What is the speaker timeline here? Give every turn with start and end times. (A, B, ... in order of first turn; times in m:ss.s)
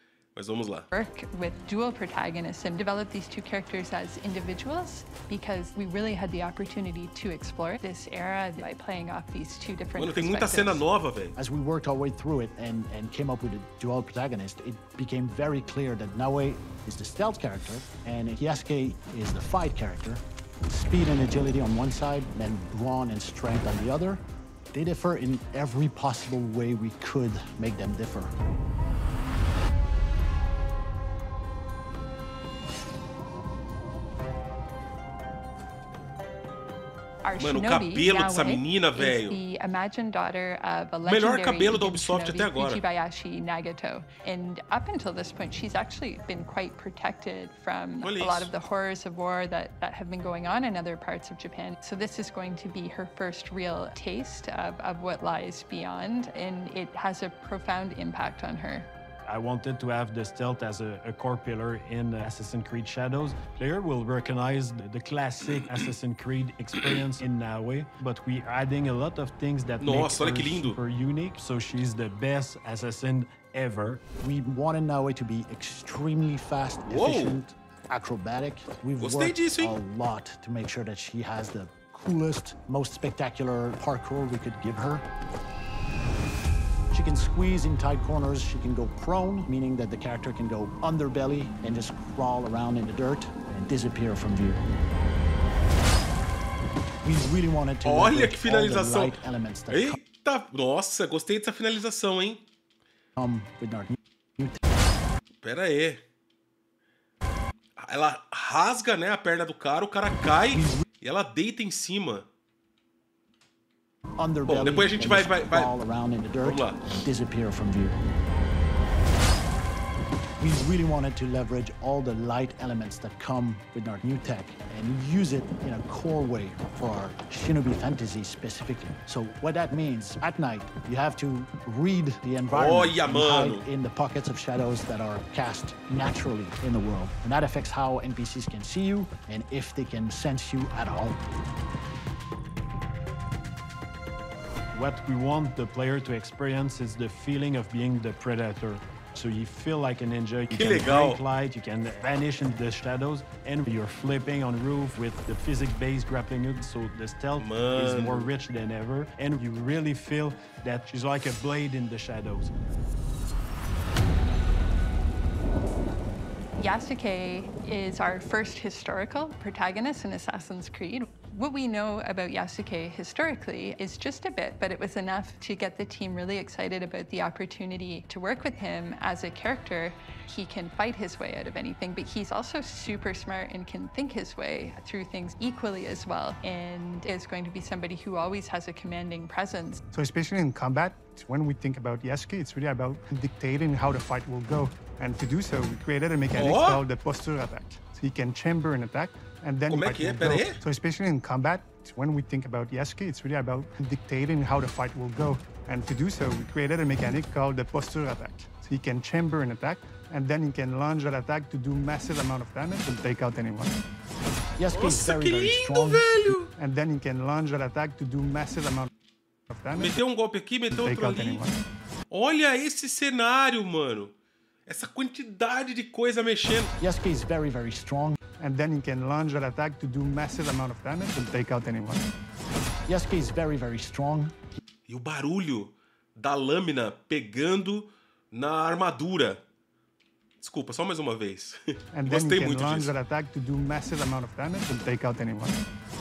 0:00.4-0:00.9 A
0:00.9-0:10.8 B
0:10.0-0:11.4 A
0:11.4-0:28.3 C
0:37.2-0:58.9 B
0:37.4-0:39.4 A
0:41.0-0:42.8 A
0:48.0-0:48.5 A
0:59.3-1:14.0 D
1:09.8-1:10.8 A
1:14.2-1:25.0 C
1:16.9-1:17.4 A
1:19.0-1:19.8 A
1:26.9-1:34.6 C
1:37.0-1:40.0 C
1:37.8-1:42.4 A
1:43.2-1:44.6 C
1:45.4-1:46.0 A
1:47.8-1:52.3 A
1:50.5-1:50.8 C
1:54.2-1:58.0 C
1:54.4-1:55.7 A
1:56.4-1:56.8 A
2:00.4-2:21.2 C
2:12.5-2:13.7 A
2:24.7-2:42.5 D
2:30.5-2:31.2 A
2:37.4-2:38.3 A
2:46.6-3:09.8 B
3:09.9-3:33.8 E
3:16.3-3:16.8 A
3:19.7-3:20.6 A
3:34.6-3:36.2 C
3:34.7-3:36.5 A
3:36.6-3:38.9 E
3:39.5-3:40.0 E
3:39.8-3:41.5 A
3:40.7-3:41.6 E
3:42.1-3:44.1 A
3:44.7-3:46.8 A
3:46.8-3:48.2 C
3:48.4-3:52.1 E
3:52.9-3:54.4 C
3:54.9-3:59.4 A
4:00.4-4:02.9 A
4:01.9-4:05.6 E